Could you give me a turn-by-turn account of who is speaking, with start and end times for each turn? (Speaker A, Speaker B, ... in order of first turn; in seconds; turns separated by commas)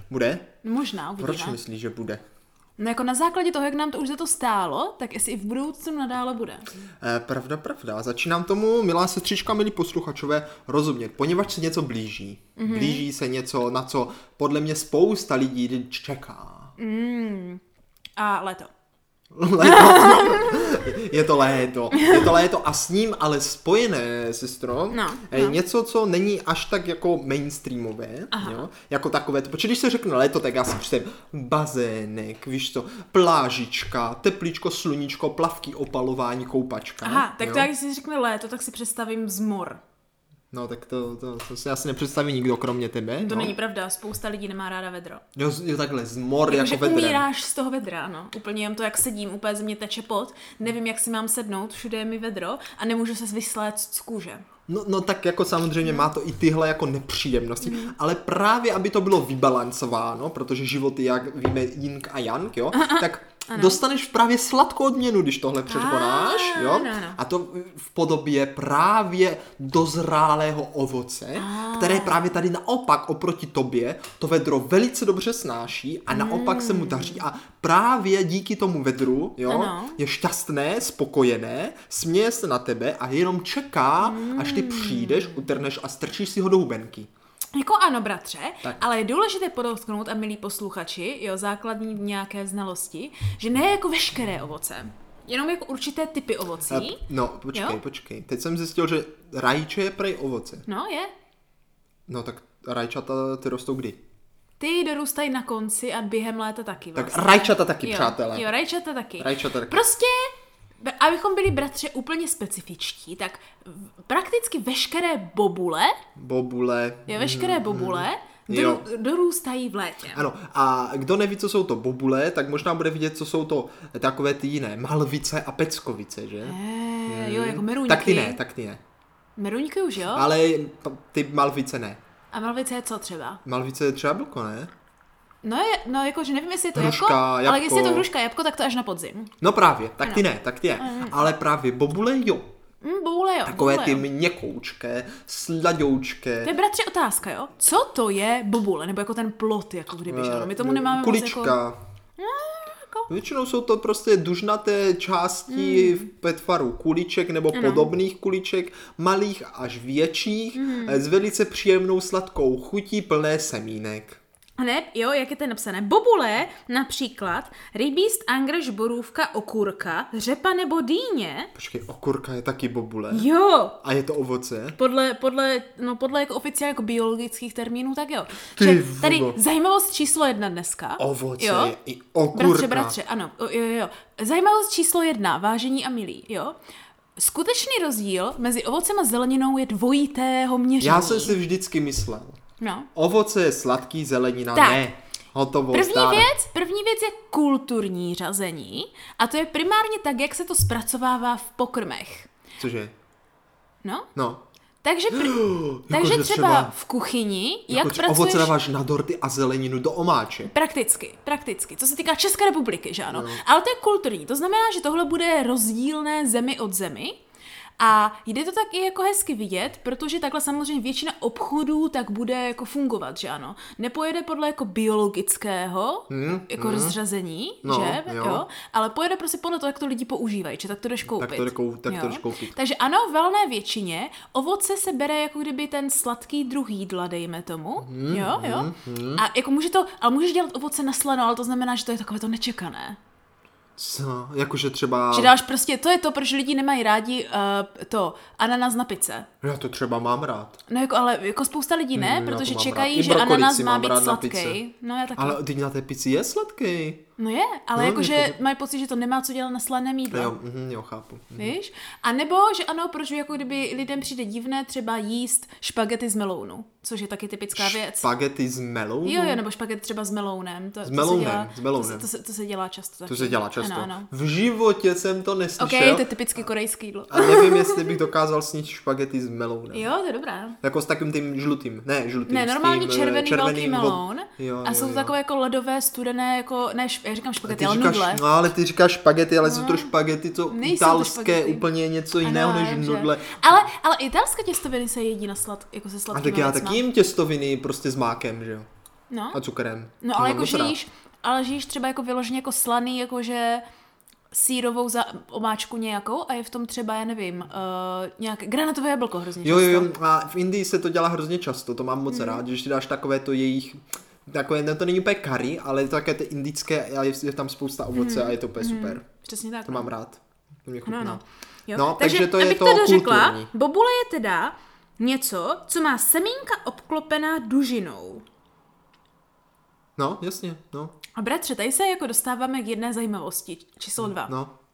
Speaker A: 0.1-0.5, Speaker B: 0.6-1.6, Speaker A: 1.2-2.2, Speaker B: 2.8-6.7, Speaker A: 7.0-16.7, Speaker B: 12.6-13.0, Speaker B: 16.8-17.6, Speaker B: 18.2-18.7, Speaker A: 19.3-37.7, Speaker B: 19.6-20.9, Speaker B: 21.9-22.4, Speaker B: 24.9-25.6, Speaker B: 28.3-28.6, Speaker B: 37.0-39.8, Speaker A: 40.5-43.5, Speaker B: 43.2-45.2, Speaker A: 45.3-47.2, Speaker B: 46.5-54.4, Speaker A: 54.7-87.1, Speaker B: 57.6-57.9, Speaker B: 62.7-63.8, Speaker B: 65.7-67.2, Speaker B: 71.3-72.2, Speaker B: 76.1-77.2, Speaker B: 79.5-80.0, Speaker B: 84.0-85.5, Speaker B: 87.5-97.0, Speaker A: 96.7-100.7, Speaker B: 97.5-97.8, Speaker B: 100.7-101.1, Speaker A: 102.1-104.0, Speaker B: 104.6-116.0, Speaker A: 106.9-108.5, Speaker A: 109.2-109.8, Speaker A: 116.2-118.8, Speaker B: 117.1-120.2, Speaker A: 120.1-128.8, Speaker B: 126.4-128.4, Speaker B: 129.3-130.3, Speaker A: 130.1-132.0, Speaker B: 132.3-133.4, Speaker A: 133.4-134.7, Speaker B: 135.4-139.3, Speaker A: 136.7-138.1, Speaker A: 139.4-142.5, Speaker B: 140.8-141.3, Speaker B: 142.8-144.0, Speaker A: 143.4-146.5, Speaker B: 146.4-151.6, Speaker A: 150.1-151.8, Speaker B: 152.2-153.1, Speaker A: 153.1-164.2, Speaker B: 155.5-156.1, Speaker B: 157.5-157.9, Speaker B: 160.6-161.0, Speaker B: 164.6-171.5, Speaker A: 171.5-173.3, Speaker B: 173.1-173.8, Speaker A: 173.8-174.8, Speaker B: 174.8-181.7, Speaker A: 178.6-179.4, Speaker A: 181.0-182.9, Speaker B: 182.3-186.6, Speaker B: 187.2-191.4, Speaker A: 190.8-192.4, Speaker B: 192.6-192.9, Speaker A: 192.9-196.3, Speaker B: 194.5-194.8, Speaker B: 195.7-202.3, Speaker A: 202.6-202.9, Speaker B: 203.8-204.1, Speaker A: 204.1-204.4, Speaker B: 204.8-208.5, Speaker A: 205.1-206.7, Speaker A: 207.7-210.5, Speaker B: 210.5-217.2, Speaker A: 213.1-213.4, Speaker B: 217.8-243.0, Speaker A: 226.1-227.0, Speaker A: 227.6-228.4, Speaker A: 231.2-232.5, Speaker A: 237.8-239.2, Speaker A: 243.8-245.3, Speaker B: 245.1-249.3, Speaker A: 249.4-250.6, Speaker B: 250.7-255.4, Speaker A: 251.9-254.6, Speaker A: 255.2-257.0, Speaker B: 257.2-260.3, Speaker A: 257.8-258.3, Speaker A: 260.1-261.6, Speaker B: 261.4-268.1, Speaker A: 267.6-269.4, Speaker B: 269.0-274.1, Speaker A: 270.8-272.1, Speaker A: 273.1-276.4, Speaker B: 275.6-278.0, Speaker A: 277.1-279.9, Speaker B: 279.7-280.6, Speaker A: 280.6-285.1, Speaker B: 282.3-288.2, Speaker A: 287.4-293.6, Speaker B: 289.4-289.9, Speaker B: 290.5-291.6, Speaker B: 292.2-296.8, Speaker A: 296.1-298.7, Speaker B: 299.1-299.4, Speaker A: 299.3-300.8, Speaker B: 300.0-303.6, Speaker B: 304.3-309.9, Speaker A: 309.4-319.0, Speaker B: 312.1-312.4, Speaker B: 317.9-319.9, Speaker A: 319.6-321.2, Speaker B: 320.8-328.2, Speaker A: 321.7-323.5, Speaker A: 330.0-330.9, Speaker B: 331.1-334.3, Speaker A: 334.0-334.5